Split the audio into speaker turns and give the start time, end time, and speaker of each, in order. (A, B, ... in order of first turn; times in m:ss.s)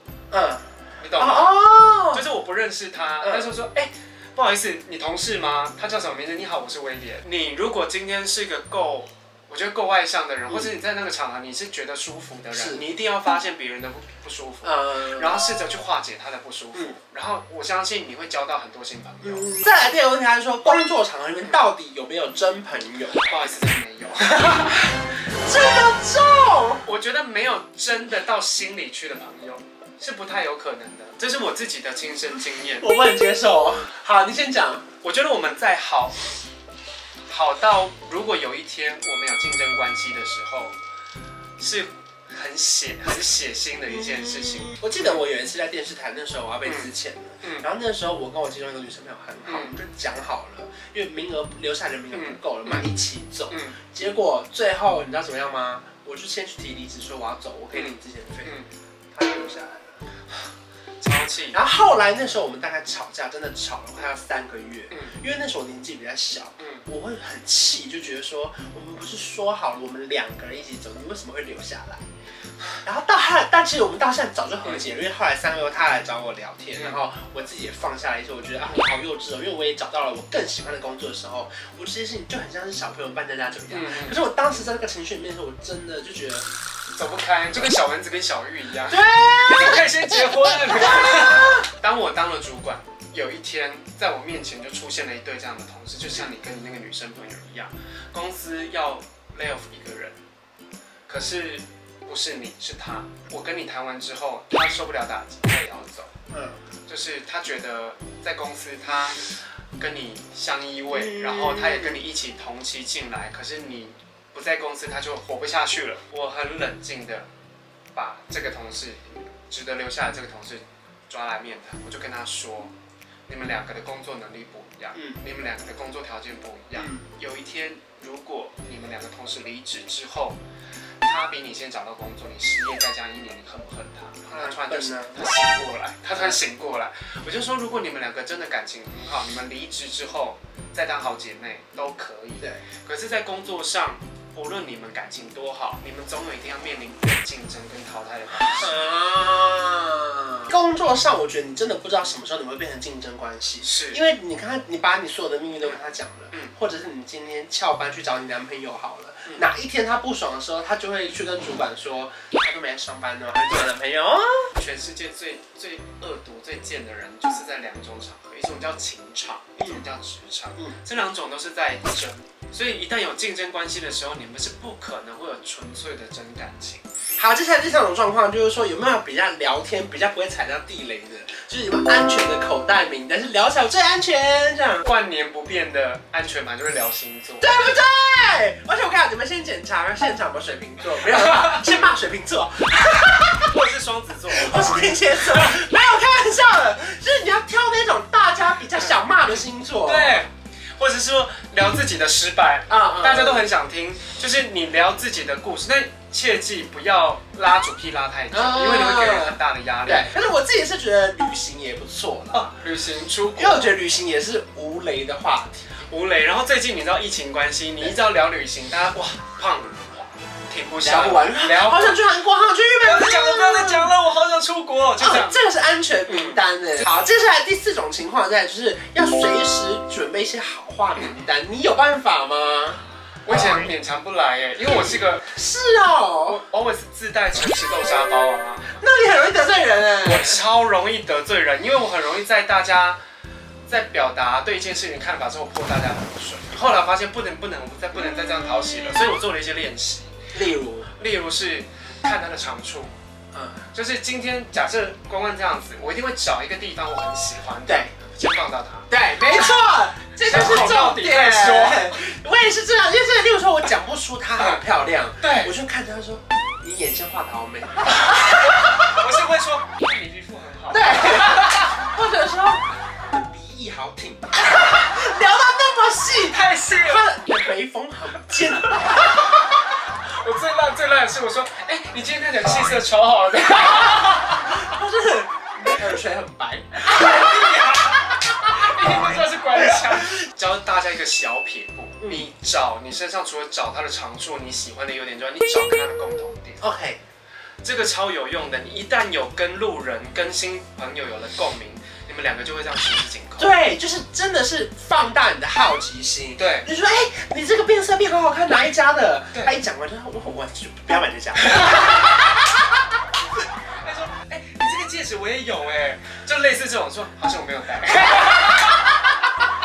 0:00.3-0:02.2 A
0:01.0-0:19.5 B
0:03.2-0:03.5 A
0:12.5-0:12.8 A
0:14.6-0:15.3 A
0:19.2-0:23.2 A
0:23.2-0:24.9 B
0:24.3-0:26.8 A
0:26.8-0:32.9 B
0:32.8-0:34.8 A
0:35.0-0:36.2 B
0:37.3-0:40.8 B
0:41.6-0:45.1 B
0:44.2-0:58.6 A
0:46.6-0:46.9 B
0:49.5-0:49.7 B
0:52.1-0:52.9 B
0:53.5-0:53.8 B
0:57.7-0:58.7 B
0:59.1-1:00.0 A
1:01.0-1:01.6 B
1:01.5-1:12.0 A
1:06.6-1:06.8 B
1:12.8-1:26.4 A
1:23.7-1:24.2 B
1:27.0-1:40.2 B
1:28.9-1:29.9 A
1:30.9-1:31.6 A
1:41.1-1:46.1 B
1:46.3-1:46.6 A
1:46.9-1:57.3 B
1:50.9-1:52.0 A
1:57.9-2:02.7 B
2:03.3-2:10.4 B
2:05.0-2:05.2 A
2:06.8-2:07.0 A
2:11.0-2:28.7 B
2:14.3-2:15.2 A
2:28.4-2:44.5 A
2:33.6-2:34.0 B
2:44.6-2:56.8 B
2:57.2-3:04.8 A
3:04.8-3:07.7 B
3:07.4-3:13.5 A
3:13.4-3:15.6 B
3:14.3-3:20.2 A
3:19.8-3:30.1 B
3:22.7-3:23.5 A
3:28.3-3:32.6 A
3:32.3-3:33.7 B
3:33.4-3:35.7 A
3:35.9-3:42.0 B
3:40.8-3:43.9 A
3:42.8-3:45.4 B
3:45.0-3:53.5 A
3:46.1-3:46.4 B
3:53.2-3:55.3 B
3:54.7-3:56.4 A
3:56.2-3:58.8 B
3:58.8-4:00.4 A
4:00.0-4:03.0 B
4:03.7-4:10.1 B
4:10.3-4:10.9 A
4:11.0-4:12.9 B
4:13.3-4:13.6 A
4:13.7-4:19.4 B
4:18.9-4:29.0 A
4:20.2-4:22.0 B
4:24.4-4:24.6 B
4:25.2-4:25.5 B
4:28.0-4:31.8 B
4:30.7-4:39.3 A
4:36.2-4:37.1 B
4:38.7-4:39.0 B
4:40.0-4:44.7 B
4:44.2-4:47.3 A
4:46.8-4:56.6 B
4:52.0-4:52.3 A
4:56.6-4:57.0 A
4:57.6-5:03.5 B
5:03.4-5:12.4 A
5:06.4-5:06.7 B
5:11.4-5:12.1 B
5:13.8-5:19.1 B